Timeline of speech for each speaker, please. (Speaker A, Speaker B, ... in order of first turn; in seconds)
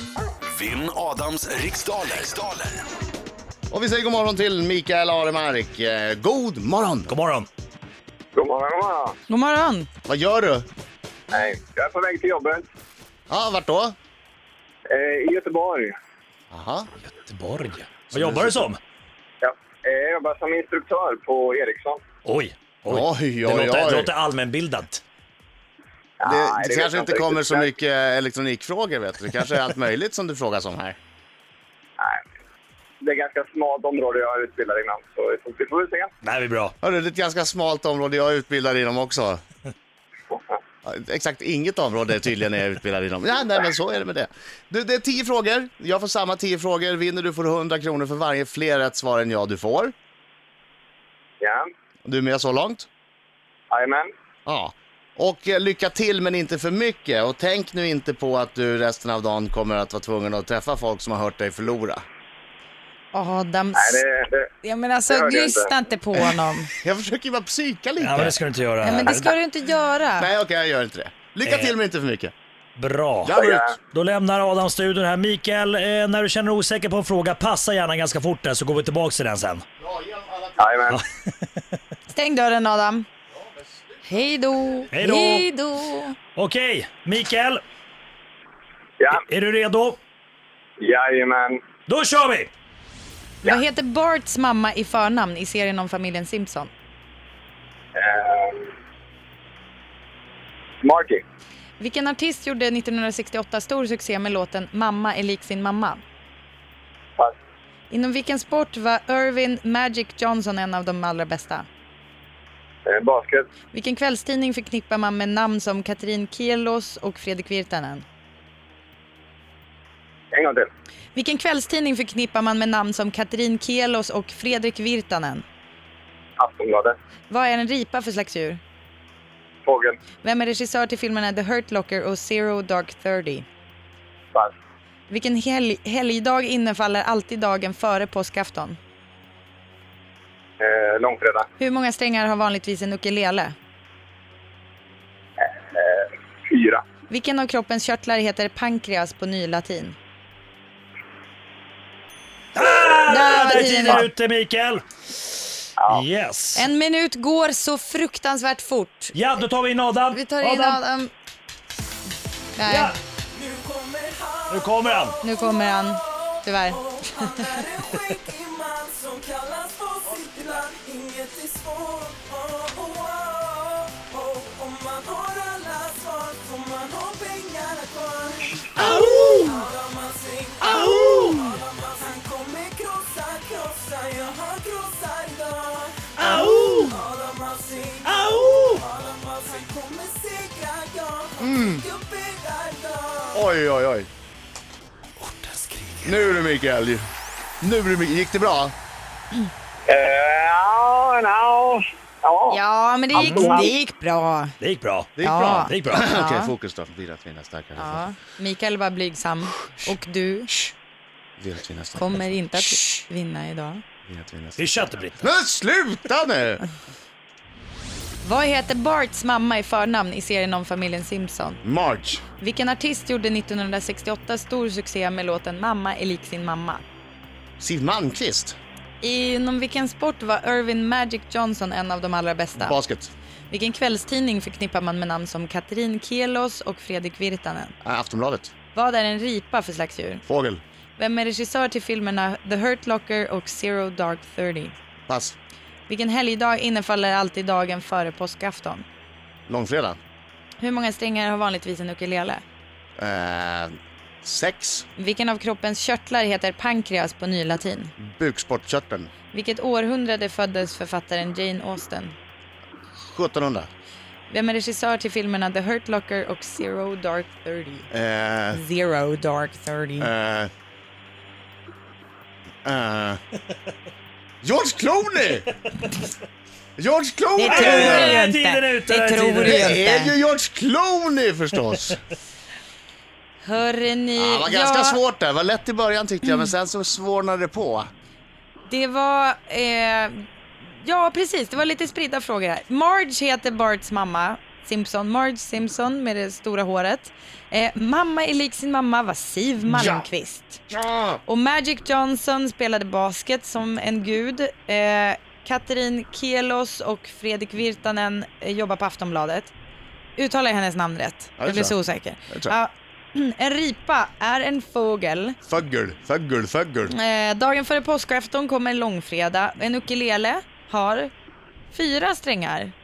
Speaker A: 0.5-2.8
Speaker B: 3.7-7.1, 10.1-10.7, 13.3-13.9, 16.5-16.9, 18.1-18.7, 22.9-24.1, 26.2-31.0, 36.8-39.4, 40.8-49.9, 52.0-52.9, 54.5-62.0, 66.8-68.4, 70.2-72.3, 73.2-73.7, 79.8-80.8, 83.3-84.8, 191.4-191.8, 193.3-194.1, 196.0-197.1, 197.6-198.7, 205.2-208.1, 211.4-213.0, 214.1-216.7, 221.6-222.2, 227.6-228.6, 232.6-233.1, 237.8-238.5, 240.3-240.6, 245.1-245.3, 249.5-250.0, 253.0-254.8, 258.0-259.1, 263.0-263.7, 267.9-268.6, 270.0-270.5, 272.6-273.2, 274.4-275.5, 276.8-278.2, 279.4-282.0, 284.1-287.9, 299.7-300.1, 300.7-301.2, 311.4-311.8, 312.3-312.5, 315.4-316.9
Speaker C: 7.1-7.5, 17.1-18.8, 22.2-25.0, 36.2-36.7, 68.0-69.3, 71.5-71.7, 72.8-73.4, 73.9-79.6, 80.9-81.5, 84.9-85.5, 86.3-87.6, 89.1-90.0, 91.9-92.5, 152.5-154.8, 155.8-156.7, 159.1-160.8, 162.6-162.9, 164.5-165.2, 178.7-179.6, 180.6-181.6, 186.2-187.0, 188.0-188.8, 195.2-196.1, 203.1-203.6, 204.6-206.1, 214.6-215.2, 277.4-279.6
Speaker D: 8.3-9.2, 11.3-12.6, 14.9-15.9, 19.4-22.0, 26.2-27.7, 33.0-36.1, 40.3-40.6, 51.4-51.6, 53.7-54.1, 63.7-64.5, 65.1-65.7, 73.3-73.7, 80.6-81.0, 90.8-91.6, 97.9-98.7, 100.8-101.2, 112.8-113.5, 120.3-120.7, 126.4-127.0, 129.7-130.0, 140.6-141.4, 145.4-146.8, 155.8-156.1, 199.9-202.6, 203.1-203.7
Speaker E: 9.3-9.9, 63.1-64.0, 64.6-66.7, 68.8-70.3, 82.1-83.0, 84.0-86.2, 93.4-96.7, 101.8-106.0, 107.9-111.7, 113.7-118.0, 121.1-125.4, 127.3-128.6, 130.2-133.4, 135.1-138.8, 141.6-143.5, 147.1-150.0, 153.1-154.1, 156.5-159.1, 160.1-161.1, 162.6-162.9, 165.2-167.3, 202.5-204.6, 205.2-206.5, 207.7-210.5, 211.9-213.8, 218.2-221.6, 222.4-226.8, 229.0-232.8, 233.5-237.7, 238.7-240.2, 241.0-244.8, 245.9-248.8, 250.6-252.4, 255.0-257.9, 259.3-262.1, 264.3-267.9, 268.5-270.1, 277.4-280.1, 283.4-285.0, 288.7-300.6, 301.2-309.5, 310.1-315.4, 316.9-321.1, 321.7-322.7
Speaker F: 163.3-193.4